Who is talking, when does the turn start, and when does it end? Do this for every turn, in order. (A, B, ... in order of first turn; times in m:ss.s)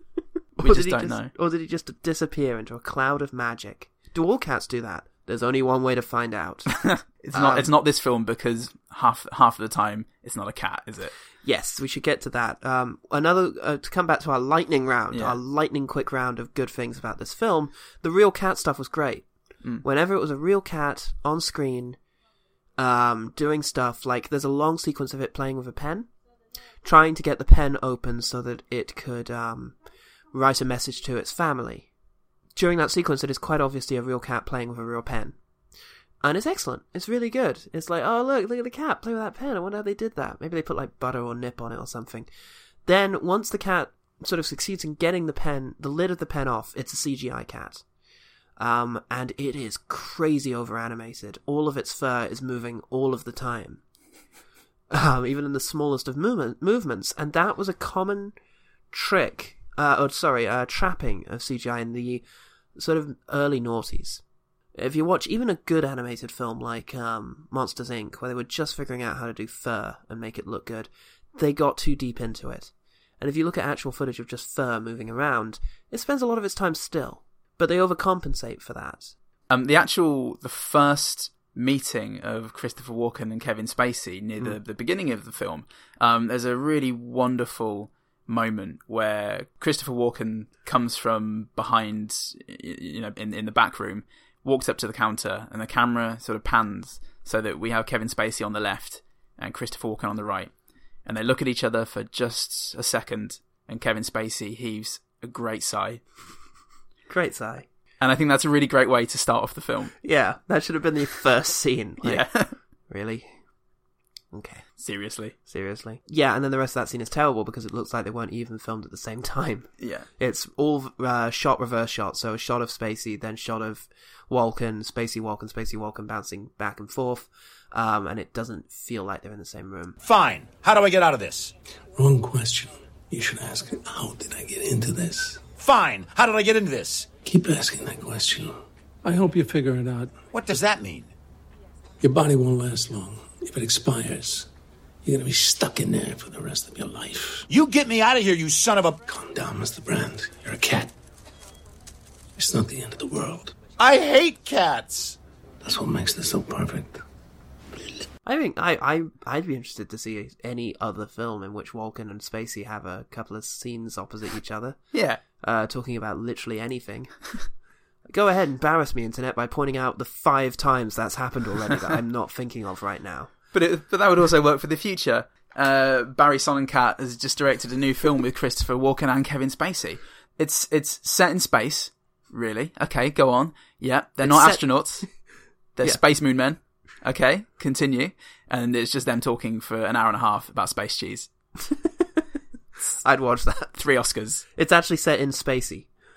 0:00.6-0:06.8 A
0:00.6-0:01.3 B
0:06.8-0:11.1 B
0:07.3-0:07.7 A
0:11.4-0:19.3 A
0:15.1-0:15.4 B
0:19.8-0:22.0 A
0:22.8-0:26.1 A
0:26.8-0:29.8 A
0:30.3-0:31.9 A
0:32.6-0:35.4 A
0:36.2-0:42.3 A
0:42.9-0:47.8 A
0:48.6-0:53.8 A
0:54.9-0:58.3 A
0:58.9-1:02.2 A
1:02.8-1:04.2 A
1:04.8-1:19.1 A
1:19.5-1:40.5 B
1:41.0-1:46.0 B
1:47.1-1:47.7 A
1:48.0-1:49.9 B
1:50.0-1:52.3 A
1:52.0-1:52.5 B
1:52.9-1:53.3 A
1:54.3-1:54.6 A
1:54.8-1:55.4 B
1:55.5-2:10.0 A
1:59.8-2:00.1 B
2:10.0-2:11.5 C
2:12.0-2:15.5 D
2:15.6-2:17.1 C
2:17.2-2:20.3 D
2:20.3-2:21.1 C
2:22.0-2:24.5 D
2:25.0-2:27.5 D
2:27.5-2:29.0 C
2:29.0-2:30.9 D
2:32.4-2:33.6 D
2:33.8-2:35.2 C
2:35.6-2:37.0 D
2:38.2-2:44.8 A
2:44.9-2:45.2 B
2:45.4-2:47.2 A
2:48.1-2:53.3 A
2:53.5-3:05.1 B
3:04.2-3:04.6 A
3:05.8-3:11.3 B
3:13.0-3:13.8 A
3:13.8-3:14.4 B
3:14.6-3:15.9 A